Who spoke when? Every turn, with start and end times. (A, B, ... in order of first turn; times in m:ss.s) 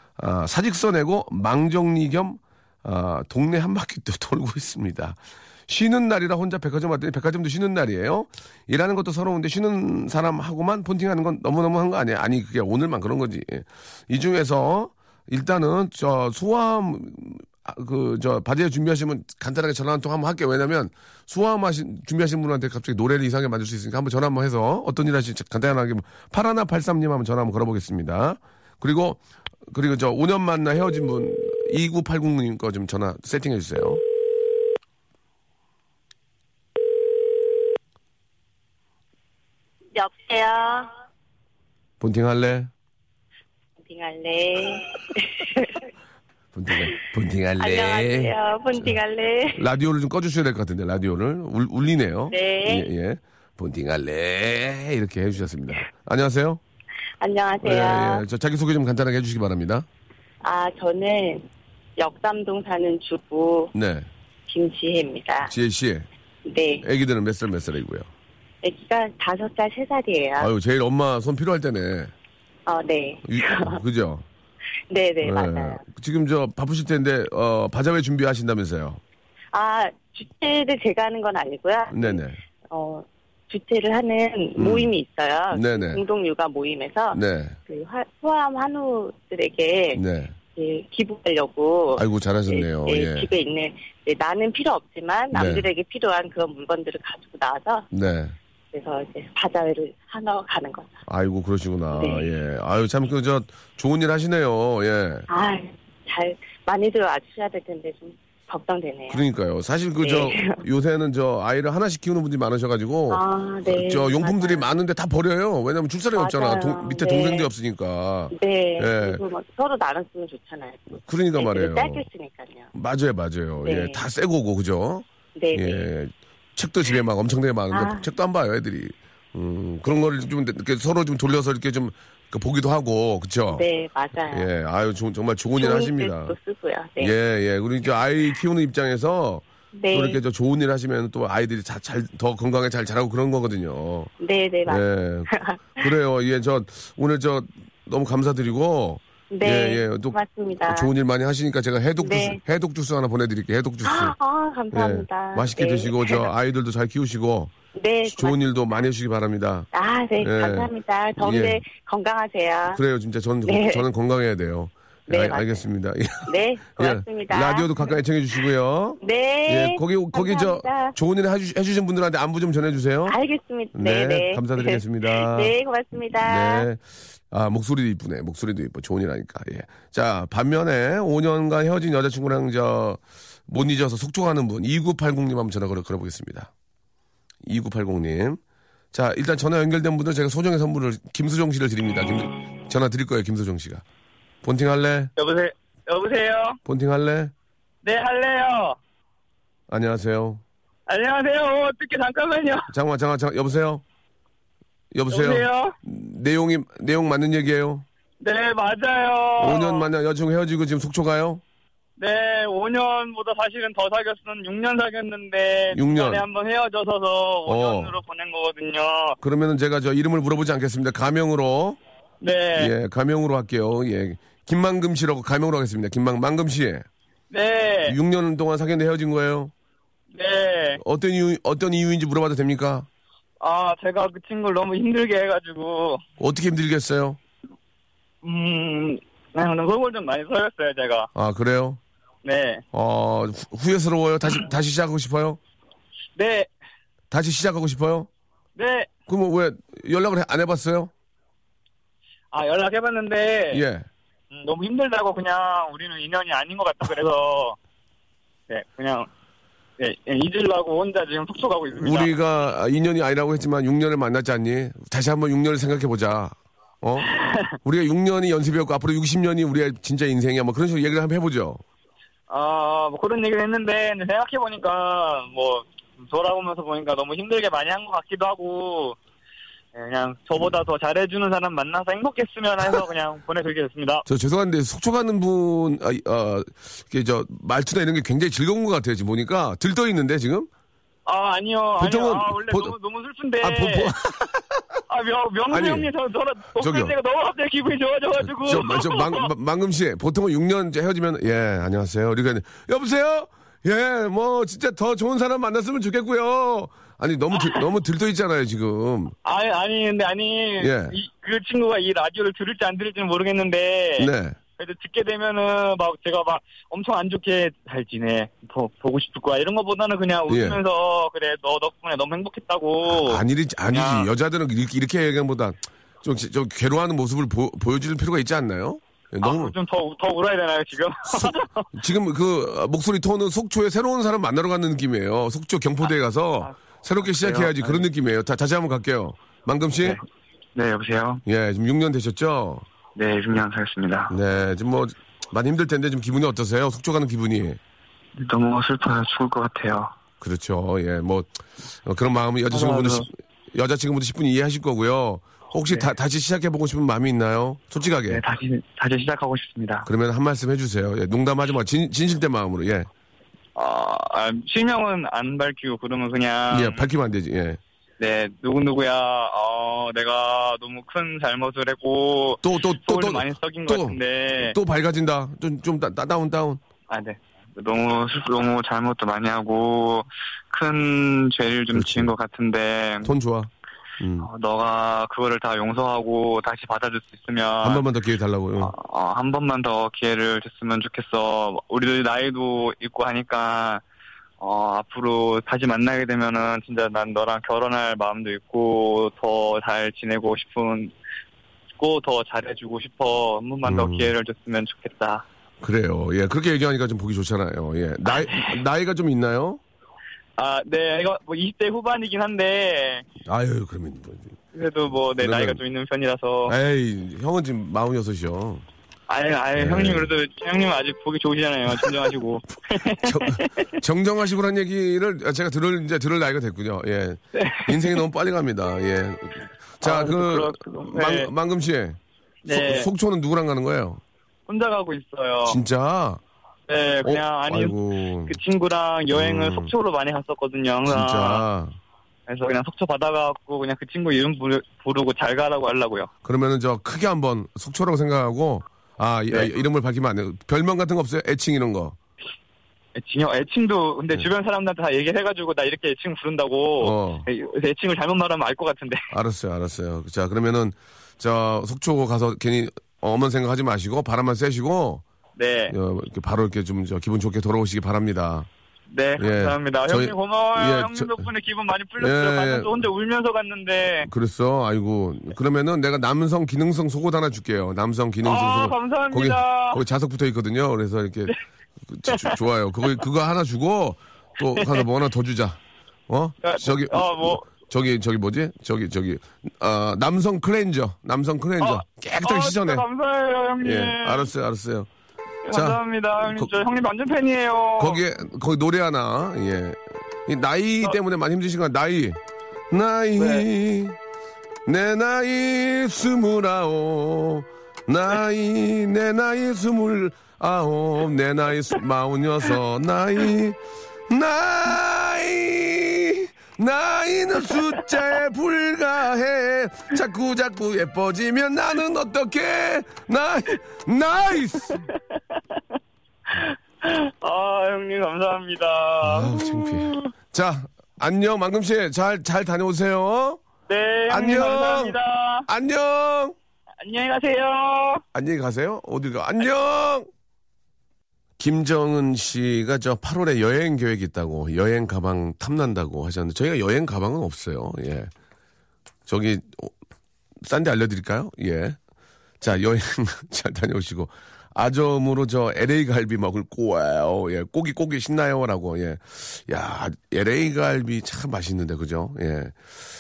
0:00.2-0:34.0 A
0:40.0-0:40.9 B
0:42.0-0:42.7 A
0:43.8-0:45.8 B
0:46.5-0:49.0 A
0:47.6-0:49.6 B
0:49.6-0:56.6 A
0:52.3-0:52.9 B
0:57.2-0:58.2 B
0:57.6-0:59.9 A
1:00.4-1:01.4 B
1:02.0-1:03.7 B
1:03.7-1:04.1 A
1:04.5-1:05.5 B
1:05.5-1:06.1 A
1:06.4-1:06.8 B
1:06.8-1:08.1 A
1:08.6-1:10.5 B
1:10.4-1:12.1 A
1:12.7-1:13.8 B
1:13.3-1:14.2 A
1:14.9-1:15.8 B
1:15.2-1:19.0 A
1:19.5-1:30.0 B
1:21.9-1:22.4 A
1:24.6-1:24.9 A
1:25.5-1:26.0 A
1:27.1-1:27.6 A
1:29.9-1:30.4 A
1:30.6-1:37.9 B
1:32.0-1:33.3 A
1:35.3-1:35.7 A
1:37.9-1:38.4 A
1:38.7-1:41.0 B
1:41.1-1:45.3 A
1:41.9-1:42.2 B
1:45.3-1:49.2 B
1:49.1-1:59.2 A
1:50.0-1:50.6 B
1:53.1-1:54.6 B
1:56.2-1:57.5 B
1:58.3-2:00.8 B
2:00.9-2:02.1 A
2:01.4-2:02.7 B
2:02.7-2:13.6 A
2:03.6-2:04.0 B
2:05.4-2:05.9 B
2:07.7-2:08.0 B
2:13.6-2:14.5 B
2:14.3-2:16.4 A
2:15.6-2:17.1 B
2:17.0-2:24.1 A
2:19.8-2:20.2 B
2:24.2-2:25.8 B
2:24.7-2:30.2 A
2:29.3-2:30.9 B
2:30.7-2:34.2 A
2:32.0-2:32.4 B
2:33.8-2:36.3 B
2:34.7-2:37.5 A
2:37.8-2:38.4 B
2:38.1-2:39.7 A
2:39.7-2:42.8 B
2:40.2-2:41.6 A
2:42.7-2:53.2 A
2:43.5-2:43.8 B
2:45.1-2:45.6 B
2:46.3-2:47.7 B
2:49.0-2:51.0 B
2:53.1-2:56.7 B
2:53.7-2:55.5 A
2:56.2-3:06.5 A
3:07.4-3:08.4 A
3:08.9-3:13.8 A
3:14.4-3:15.1 A
3:15.2-3:16.6 C
3:16.6-3:17.3 A
3:17.8-3:18.8 C
3:19.7-3:20.4 A
3:20.9-3:22.7 C
3:22.7-3:23.8 A
3:24.9-3:27.9 A
3:25.1-3:25.7 C
3:28.2-3:29.9 C
3:29.4-3:31.4 A
3:32.0-3:39.2 C
3:35.7-3:36.2 A
3:37.5-3:38.0 A
3:39.2-3:41.8 A
3:42.2-3:42.7 C
3:42.6-3:46.8 A
3:47.3-3:48.0 C
3:47.9-3:49.5 A
3:50.1-3:50.8 C
3:50.8-3:52.9 A
3:53.4-3:56.0 C
3:56.2-3:57.2 A
3:58.2-4:01.1 C
4:01.2-4:01.8 A
4:02.2-4:02.6 C
4:02.7-4:05.4 A
4:06.2-4:06.5 C
4:07.1-4:08.1 A
4:08.6-4:08.9 C
4:09.1-4:10.9 A
4:12.3-4:13.6 C
4:13.5-4:13.9 A
4:14.3-4:17.6 C
4:18.5-4:19.1 C
4:19.8-4:22.1 C
4:21.8-4:27.1 A
4:27.1-4:27.5 C
4:27.6-4:31.6 A
4:32.3-4:39.0 C
4:39.7-4:44.1 C
4:44.1-4:50.5 A
4:51.1-4:54.0 C
4:51.8-4:52.8 A
4:53.4-4:54.6 A
4:54.9-4:59.3 C
4:55.5-4:55.9 A
4:56.6-4:57.0 A
4:58.2-5:09.2 A
5:09.2-5:24.1 C
5:10.6-5:11.0 A
5:14.0-5:14.4 A
5:20.3-5:20.6 A
5:22.9-5:29.6 A
5:29.2-5:31.7 C
5:31.1-5:40.0 A
5:36.4-5:37.8 C
5:40.6-5:41.2 C
5:41.3-5:42.7 A
5:43.0-5:44.2 C
5:44.1-5:47.6 A
5:48.2-5:49.9 C
5:50.2-5:51.3 A
5:51.8-5:58.2 A
5:52.5-5:53.1 C
5:58.1-5:59.9 C
5:59.8-6:02.9 A
6:03.6-6:06.9 C
6:06.5-6:07.6 A
6:08.0-6:14.6 C
6:12.4-6:16.6 A
6:16.9-6:23.1 C
6:21.7-6:22.1 A
6:23.0-6:24.3 A
6:24.2-6:27.9 C
6:27.6-6:28.7 A
6:28.6-6:33.8 C
6:34.4-6:40.9 C
6:41.8-6:45.2 C
6:43.6-6:44.1 A
6:45.6-6:49.6 A
6:48.0-6:48.6 C
6:50.4-6:53.0 C
6:53.3-6:54.4 A
6:54.5-6:56.6 C
6:55.2-6:55.6 A
6:56.5-6:58.6 A
6:59.1-7:03.8 C
6:59.6-7:00.1 A
7:01.7-7:02.1 A
7:03.0-7:14.0 A
7:07.3-7:08.0 C
7:09.8-7:11.3 C
7:12.4-7:12.9 C
7:14.5-7:15.6 C
7:15.4-7:16.2 A
7:16.7-7:17.8 C
7:17.0-7:18.4 A
7:18.3-7:21.4 C
7:19.1-7:19.7 A
7:20.9-7:21.8 A
7:22.3-7:26.1 C
7:26.2-7:32.0 A
7:33.0-7:39.1 C
7:36.8-7:37.3 A
7:39.1-7:45.0 A
7:45.4-7:45.8 C
7:45.7-7:48.5 A
7:48.9-7:54.1 C
7:49.2-7:51.3 A
7:52.0-7:52.8 A
7:54.0-8:01.4 A
7:58.2-7:59.8 C
8:01.9-8:12.9 A
8:02.1-8:02.3 C
8:04.5-8:04.8 C
8:06.4-8:07.4 C
8:11.6-8:14.3 C
8:13.6-8:14.9 A
8:15.5-8:18.0 C
8:15.5-8:16.5 A
8:17.8-8:22.2 A
8:22.7-8:24.0 A
8:23.2-8:23.4 C
8:24.7-8:44.8 A
8:45.0-8:45.4 C
8:46.3-8:50.0 C
8:49.0-8:53.4 A
8:53.7-8:55.5 C
8:54.1-8:56.4 A
8:56.8-8:58.0 C
8:58.1-9:00.1 A
9:01.4-9:08.1 A
9:09.1-9:09.7 A
9:10.4-9:11.8 A
9:12.4-9:22.6 A